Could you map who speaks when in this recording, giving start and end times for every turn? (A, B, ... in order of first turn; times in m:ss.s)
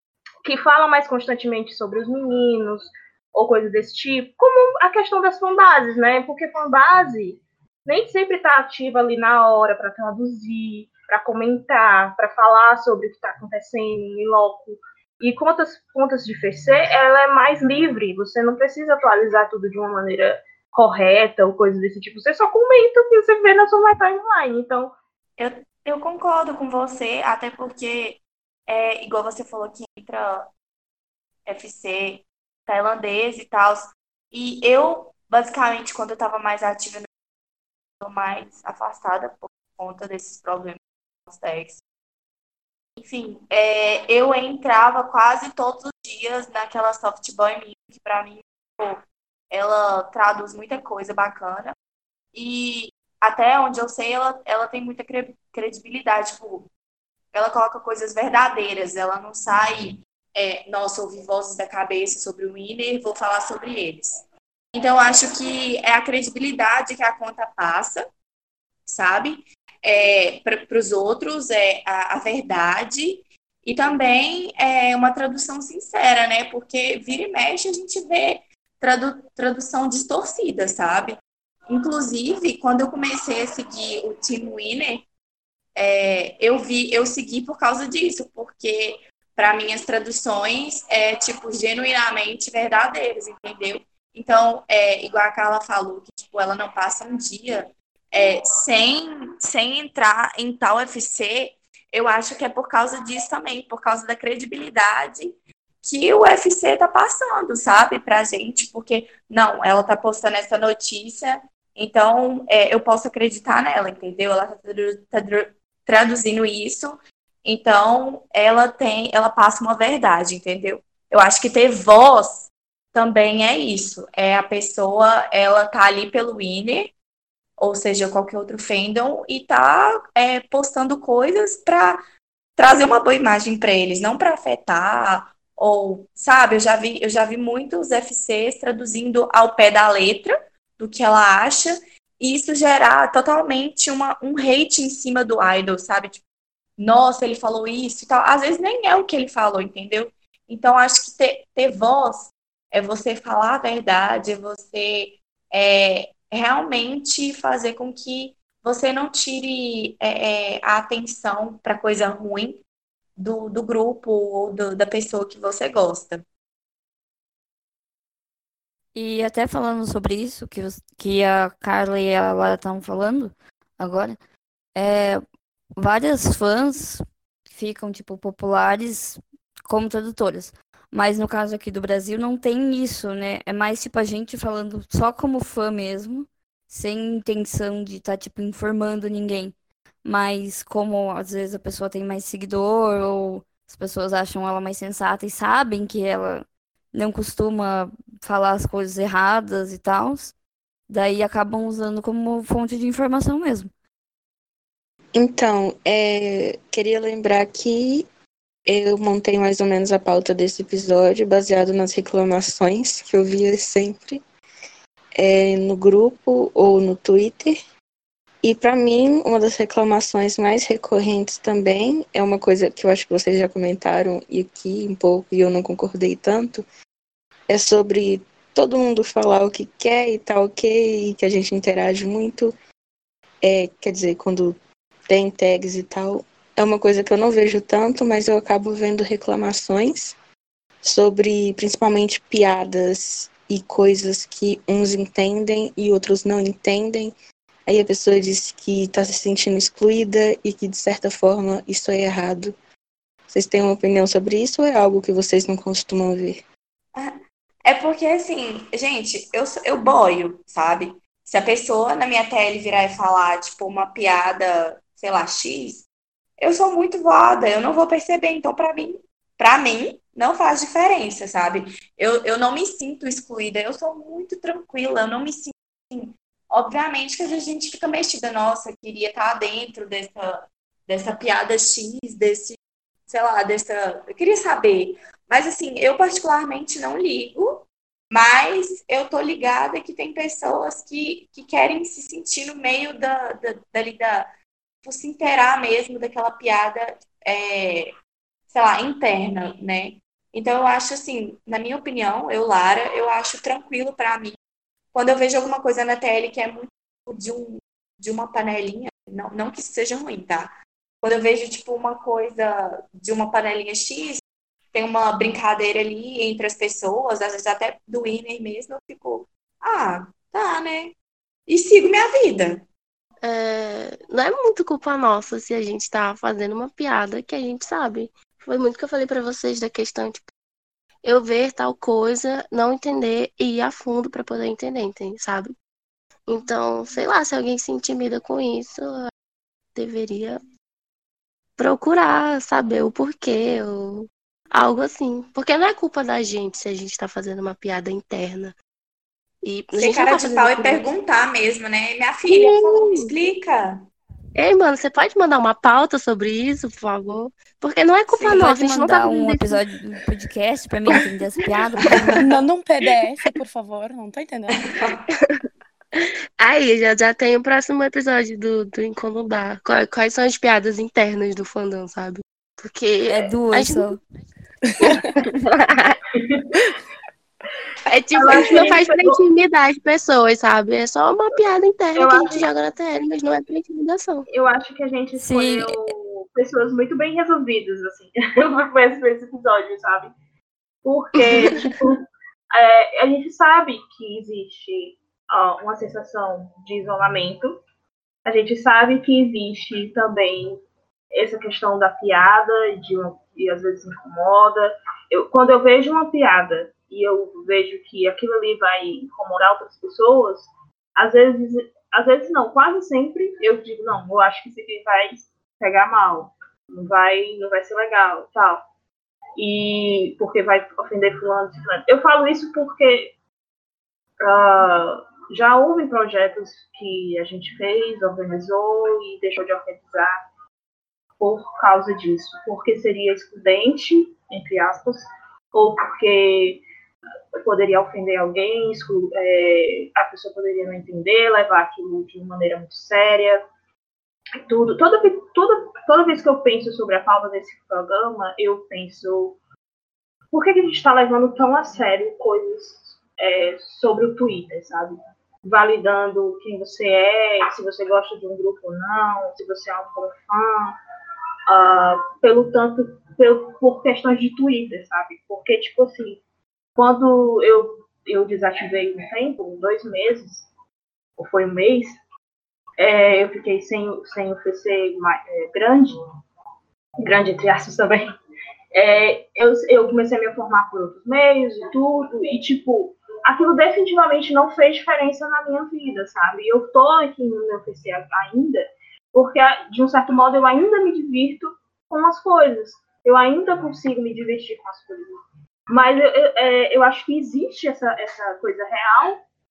0:00.4-0:24.9 A
0:25.4-0:30.5 B
0:31.4-0:37.0 B
0:38.0-0:41.8 B
0:43.0-0:51.7 B
0:52.3-0:56.7 B
0:57.3-1:04.2 B
1:04.7-1:08.0 B
1:08.8-1:25.0 B
1:25.8-2:06.9 B
2:07.6-2:12.0 B
2:12.6-2:26.2 B
2:26.8-2:42.6 B
2:43.2-2:46.2 B
2:48.9-2:54.2 C
2:54.7-2:55.2 C
2:55.8-3:20.3 C
3:20.9-3:23.7 C
3:25.1-3:28.1 D
3:28.6-3:34.2 D
3:35.2-3:37.5 D
3:38.4-3:46.6 D
3:47.5-3:52.5 D
3:53.4-4:00.1 D
4:00.8-4:07.1 D
4:07.7-4:12.5 D
4:13.3-4:16.4 D
4:16.9-4:25.8 B
4:26.4-4:54.3 B
4:54.8-4:57.9 B
4:58.5-5:04.4 B
5:04.9-5:14.2 B
5:14.7-5:20.9 B
5:21.5-5:22.6 B
5:23.2-5:30.3 E
5:31.0-5:35.5 E
5:36.3-5:39.1 E
5:39.7-5:40.4 E
5:41.6-5:48.6 E
5:49.4-5:50.8 E
5:49.7-5:53.8 B
5:52.3-5:53.1 E
5:54.4-5:59.6 E
5:58.2-5:58.4 B
5:58.2-6:02.2 C
6:02.2-6:04.6 F
6:04.5-6:05.0 B
6:05.1-6:13.9 E
6:13.1-6:14.0 C
6:14.9-6:16.0 E
6:16.1-6:16.5 A
6:17.9-6:24.2 E
6:18.1-6:19.2 A
6:22.0-6:22.4 A
6:24.3-6:30.1 A
6:25.2-6:25.7 C
6:30.8-6:37.6 A
6:31.4-6:31.7 E
6:38.2-6:40.6 A
6:41.1-6:58.6 A
6:59.4-7:03.1 A
7:04.2-7:10.2 A
7:11.2-7:15.0 A
7:15.5-7:16.6 A
7:17.4-7:23.4 A
7:24.5-7:29.4 A
7:30.3-7:40.8 A
7:41.5-7:46.2 A
7:46.8-7:50.5 A
7:51.2-7:51.9 A
7:52.8-7:55.9 A
7:57.0-7:58.0 A
7:58.7-8:15.2 A
8:15.7-8:19.2 A